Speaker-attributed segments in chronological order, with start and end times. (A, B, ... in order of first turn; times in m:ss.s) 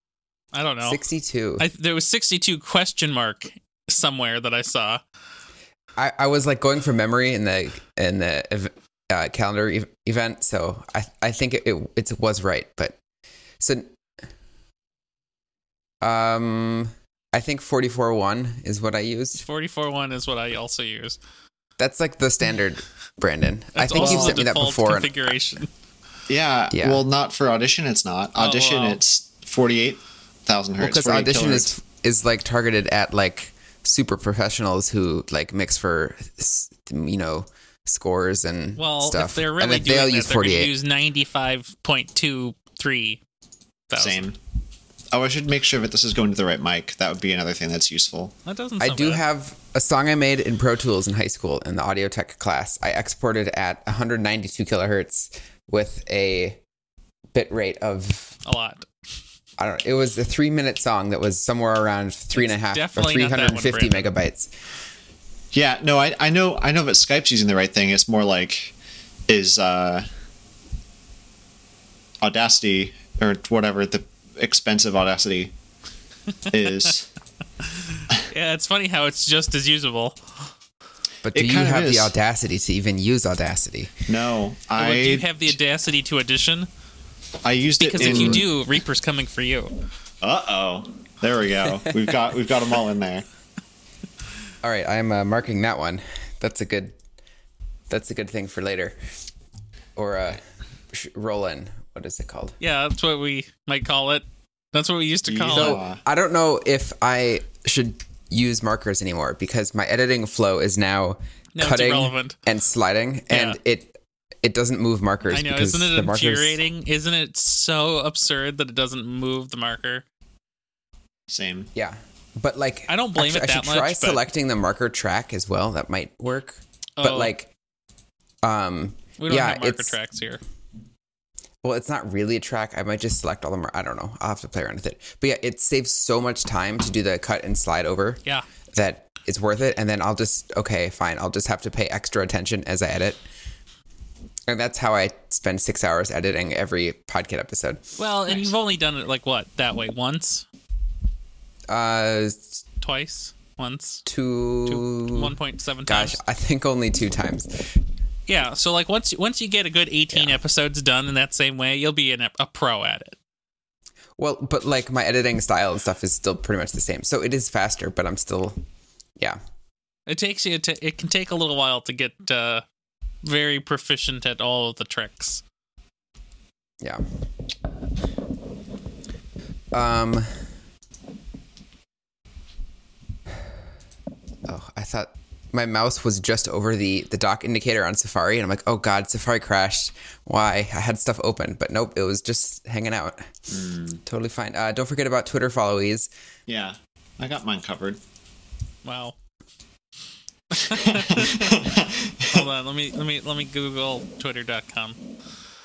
0:00.5-0:01.0 A
0:00.8-0:01.6 B
0:01.6-0:05.0 A
0:06.0-0:13.0 B
0:13.6-0:13.9 B
0:16.0-0:19.4 B
0:19.4-0:21.2 A
0:21.8-0:25.3 B
0:23.7-0:25.7 A
0:24.0-0:24.4 C
0:26.3-0:31.7 C
0:26.7-0:27.0 B
0:28.4-0:29.0 A
0:30.8-0:40.7 B
0:38.8-0:43.2 A
0:43.9-0:44.2 A
0:43.9-0:44.4 C
0:45.1-0:48.3 C
0:48.4-0:49.2 A
0:48.8-0:56.6 B
0:57.3-0:58.3 B
0:58.4-0:58.9 A
0:59.6-1:04.5 B
1:02.4-1:04.1 A
1:05.5-1:08.7 C
1:09.3-1:10.0 C
1:12.2-1:15.5 C
1:16.5-1:17.1 C
1:17.6-1:20.2 A
1:21.2-1:24.0 B
1:21.3-1:22.1 C
1:24.1-1:25.6 C
1:24.8-1:26.7 A
1:27.4-1:28.4 C
1:27.8-1:29.7 A
1:28.0-1:28.4 B
1:30.2-1:33.2 C
1:34.6-1:36.9 B
1:37.9-1:39.0 B
1:40.0-1:40.4 B
1:40.9-1:42.6 B
1:42.6-1:45.8 A
1:45.3-1:46.0 C
1:45.5-1:56.6 B
1:51.5-1:52.4 A
1:53.3-1:53.6 A
1:55.3-2:00.0 A
2:01.3-2:01.7 C
2:01.7-2:07.5 B
2:02.9-2:04.2 A
2:07.0-2:07.3 A
2:08.4-2:10.0 B
2:09.2-2:10.4 A
2:11.6-2:18.2 B
2:18.7-2:23.2 B
2:24.5-2:27.9 B
2:28.0-2:30.4 A
2:31.7-2:32.6 B
2:32.8-2:34.0 A
2:34.0-2:35.3 B
2:34.6-2:36.2 A
2:35.9-2:37.8 B
2:38.3-2:43.2 A
2:40.1-2:40.4 B
2:44.2-2:48.6 B
2:50.1-2:52.6 A
2:53.2-2:55.4 A
2:59.7-3:00.3 B
3:04.5-3:13.3 B
3:13.5-3:14.0 C
3:14.0-3:16.1 B
3:16.5-3:18.0 C
3:18.8-3:19.2 A
3:20.5-3:21.7 A
3:20.7-3:22.4 C
3:22.2-3:25.0 A